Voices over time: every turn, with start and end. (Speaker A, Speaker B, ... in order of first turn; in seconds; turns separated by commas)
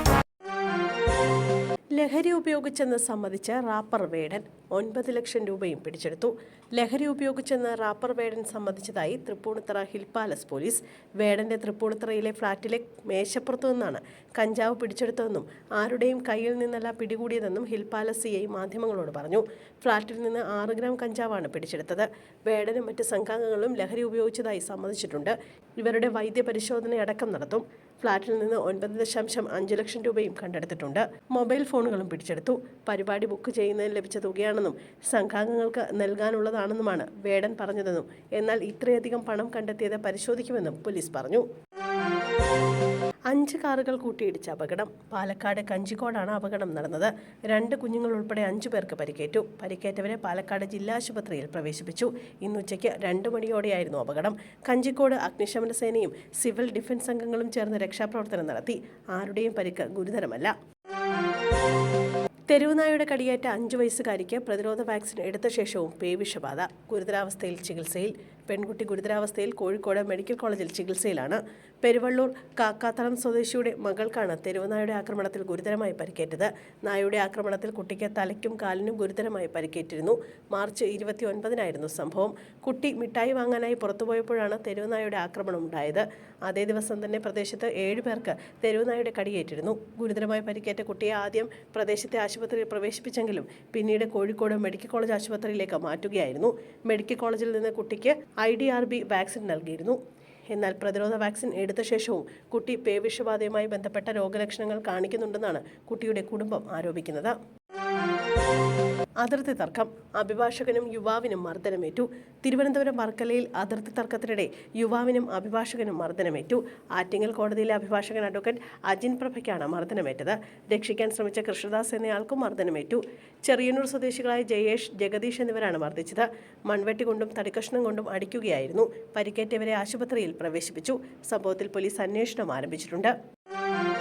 Speaker A: 2.0-41.5, Speaker A: 43.3-60.5, Speaker A: 62.5-100.0, Speaker A: 100.5-107.3, Speaker A: 109.2-133.1